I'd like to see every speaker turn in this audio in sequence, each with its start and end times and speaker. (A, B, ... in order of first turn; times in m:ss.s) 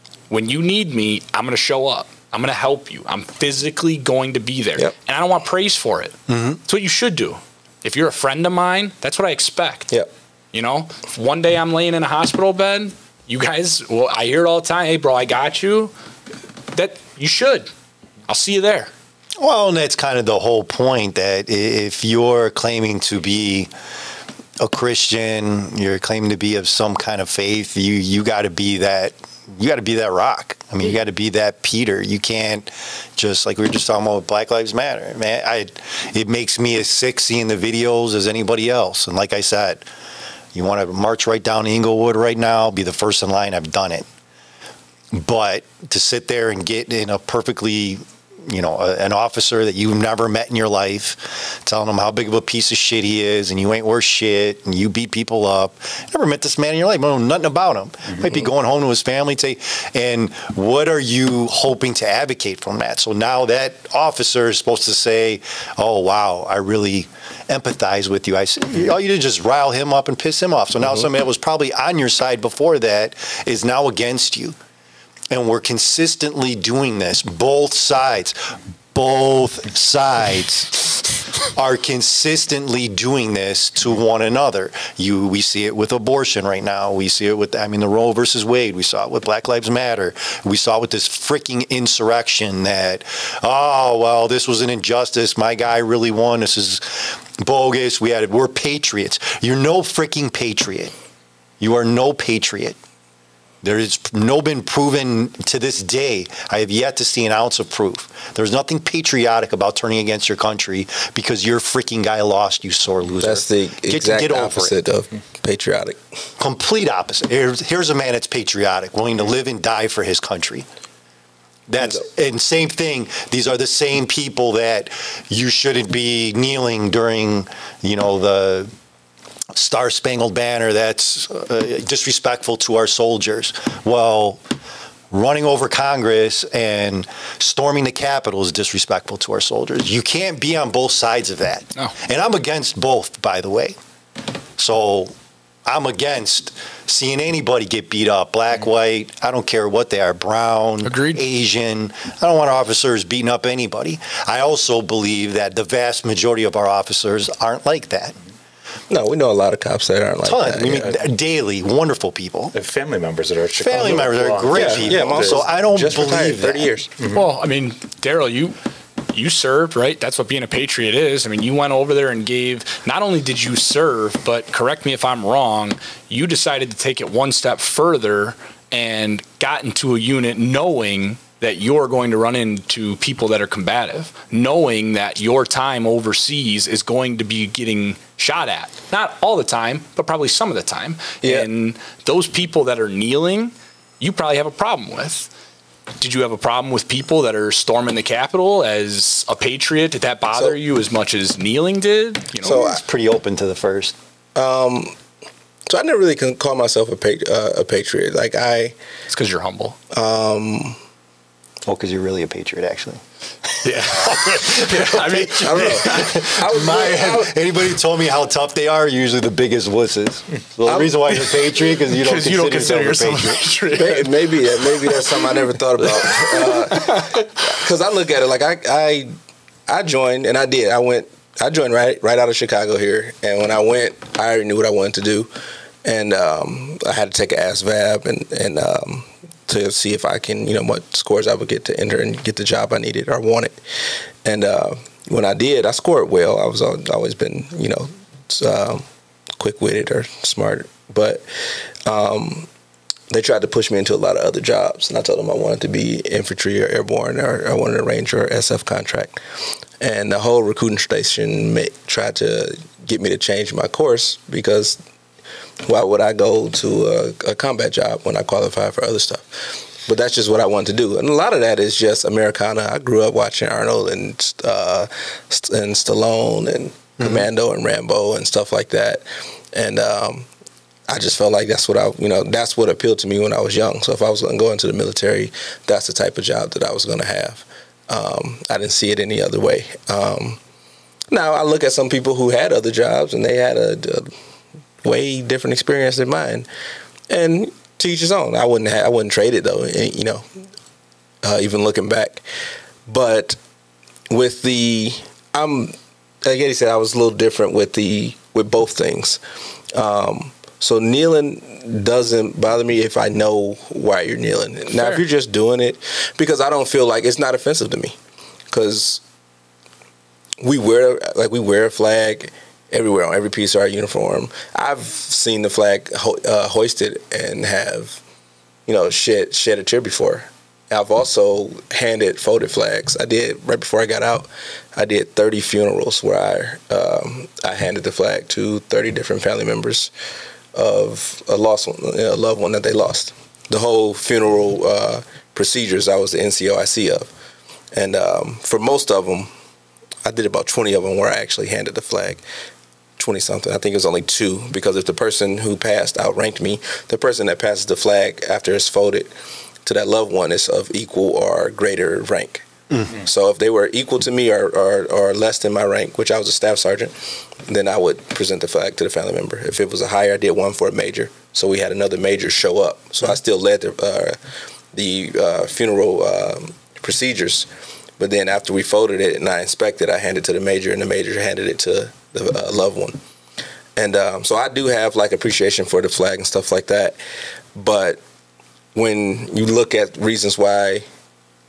0:00.3-0:09.9 A
0:06.3-0:06.6 B
0:10.5-0:15.9 A
0:16.7-0:17.7 A
0:18.3-0:18.9 A
0:19.4-0:23.7 B
0:24.6-0:39.8 B
0:40.5-0:44.1 B
0:45.1-1:14.6 B
1:15.3-1:20.9 B
1:21.5-1:40.9 B
1:41.6-1:42.8 B
1:43.6-1:54.8 B
1:53.2-1:56.0 C
1:56.4-2:00.6 B
2:01.7-2:08.7 B
2:09.5-2:14.4 B
2:15.1-2:23.8 B
2:24.6-2:25.1 B
2:25.6-2:38.2 B
2:30.8-2:31.2 A
2:38.9-2:41.0 C
2:40.2-2:42.5 B
2:42.5-2:45.4 D
2:43.6-2:46.7 B
2:44.5-2:46.9 C
2:47.0-2:47.2 D
2:47.1-2:48.6 A
2:49.1-3:15.3 A
3:11.2-3:11.5 C
3:16.0-3:22.6 A
3:22.4-3:22.8 C
3:22.4-3:23.9 B
3:24.4-3:24.9 C
3:25.7-3:28.8 C
3:29.1-3:29.8 A
3:29.9-3:30.8 C
3:31.6-3:33.0 B
3:33.6-3:36.1 A
3:33.6-3:43.4 B
3:35.3-3:37.3 C
3:40.6-3:41.2 C
3:41.6-3:45.2 A
3:43.7-3:49.1 C
3:45.8-3:47.3 A
3:49.7-3:55.3 C
3:55.8-4:03.6 C
4:04.2-4:08.8 C
4:09.4-4:12.5 C
4:13.1-4:19.2 C
4:19.8-4:24.8 C
4:25.6-4:40.3 C
4:40.9-4:50.4 C
4:51.1-4:54.1 C
4:54.8-4:56.5 C
4:57.1-5:00.2 C
5:01.2-5:02.2 C
5:02.9-5:03.4 C
5:04.1-5:09.2 C
5:09.7-5:18.0 C
5:14.7-5:15.0 A
5:18.5-5:19.0 C
5:20.4-5:28.0 C
5:28.7-5:39.9 C
5:40.5-5:47.1 C
5:47.7-5:49.3 C
5:50.0-5:52.2 C
5:53.0-5:59.1 C
5:59.6-6:06.9 C
6:02.7-6:03.0 B
6:07.4-6:14.2 C
6:14.7-6:17.5 C
6:18.0-6:23.0 C
6:23.8-6:27.0 C
6:27.5-6:28.0 C
6:28.7-6:30.8 C